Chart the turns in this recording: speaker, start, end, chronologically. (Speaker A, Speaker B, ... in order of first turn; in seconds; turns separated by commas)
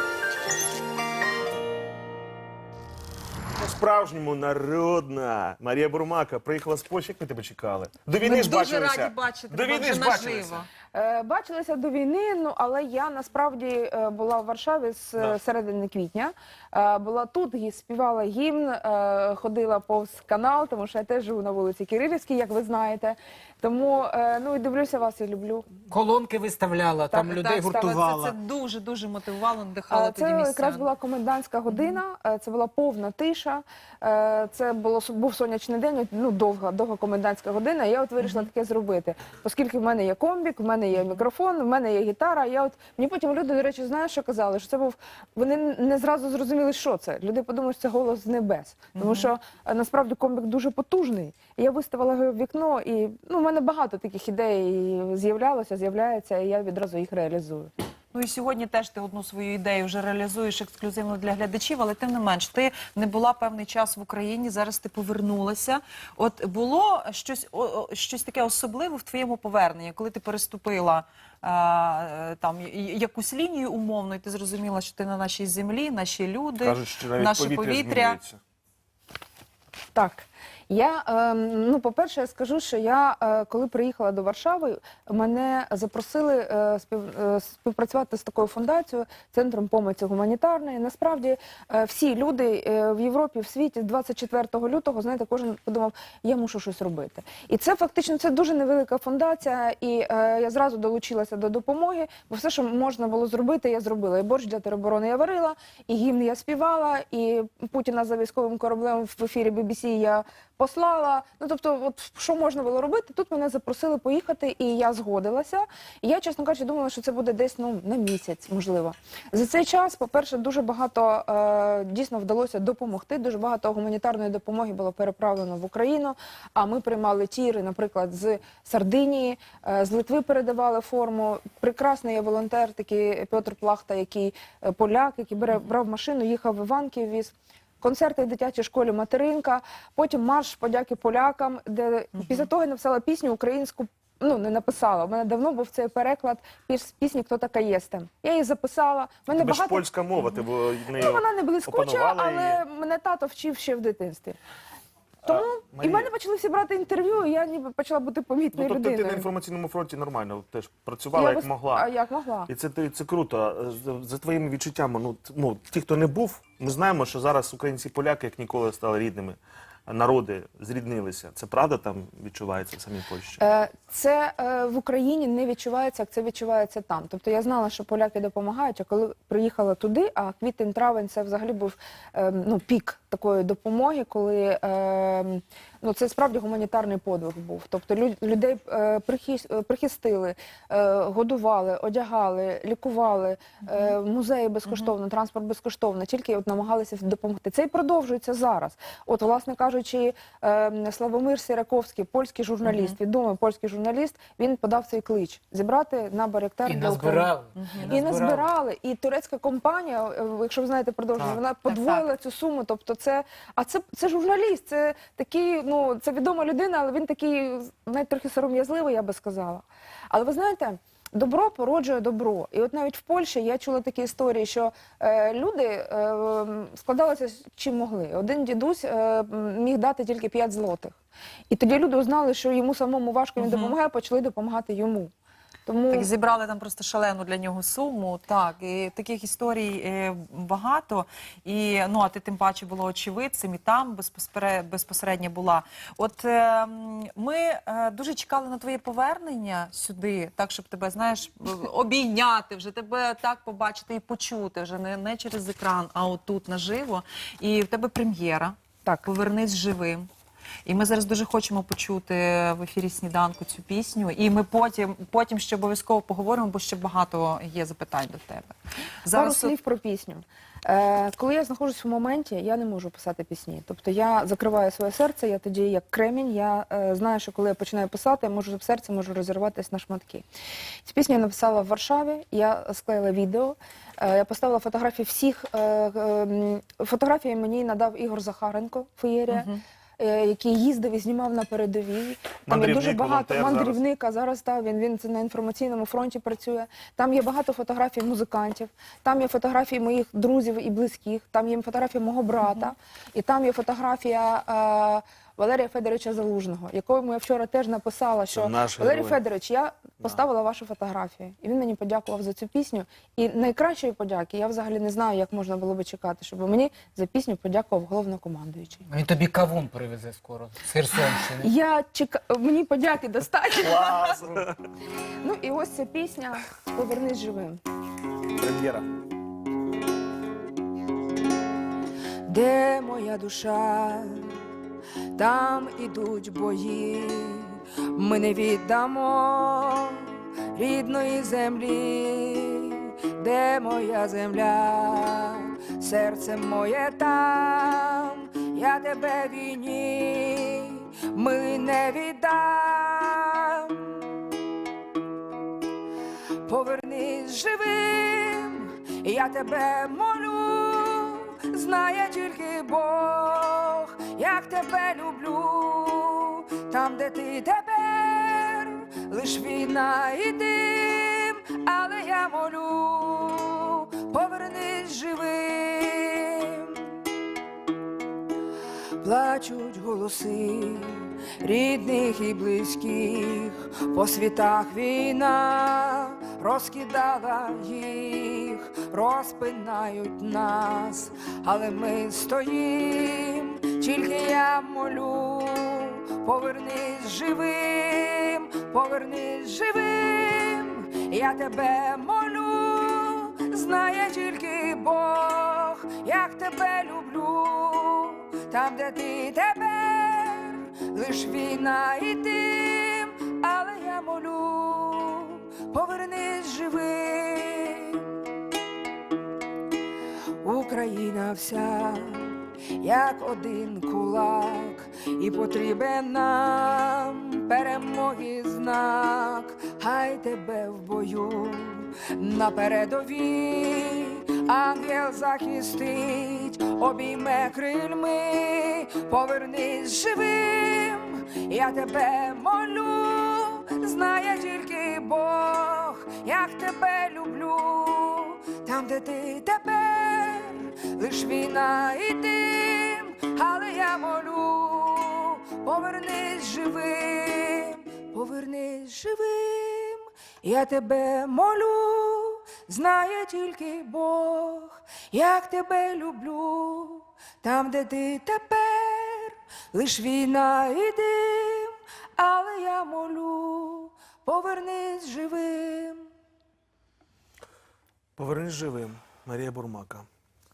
Speaker A: 3.6-10.6, Speaker B: 8.2-10.7, Speaker C: 10.9-25.6, Speaker D: 25.9-28.4, Speaker C: 27.1-28.0, Speaker B: 27.4-30.9, Speaker C: 29.9-57.7, Speaker B: 31.7-32.0, Speaker B: 49.0-49.3, Speaker B: 58.1-78.2, Speaker A: 76.6-78.4, Speaker C: 79.9-149.9, Speaker A: 149.3-152.6, Speaker C: 150.9-154.4, Speaker A: 155.2-156.1, Speaker C: 155.2-159.3, Speaker A: 158.5-161.9, Speaker C: 161.1-162.5, Speaker A: 162.5-173.4, Speaker C: 173.4-231.0, Speaker B: 202.7-203.0, Speaker D: 206.7-208.5, Speaker B: 207.6-207.9, Speaker B: 211.7-212.1, Speaker C: 231.5-235.1, Speaker B: 233.4-233.8, Speaker C: 235.7-236.1, Speaker B: 235.9-260.1, Speaker B: 260.7-269.6, Speaker C: 269.1-280.3, Speaker C: 280.8-318.9, Speaker B: 289.3-289.6, Speaker A: 292.5-293.8, Speaker A: 308.3-309.2, Speaker D: 318.9-321.5, Speaker C: 321.4-324.1, Speaker A: 323.6-324.5, Speaker C: 325.2-327.6, Speaker A: 328.4-328.9, Speaker E: 332.3-334.2, Speaker E: 335.2-340.0, Speaker E: 340.6-353.9, Speaker E: 356.5-376.8, Speaker E: 379.0-418.1, Speaker E: 420.4-475.9, Speaker A: 478.2-480.1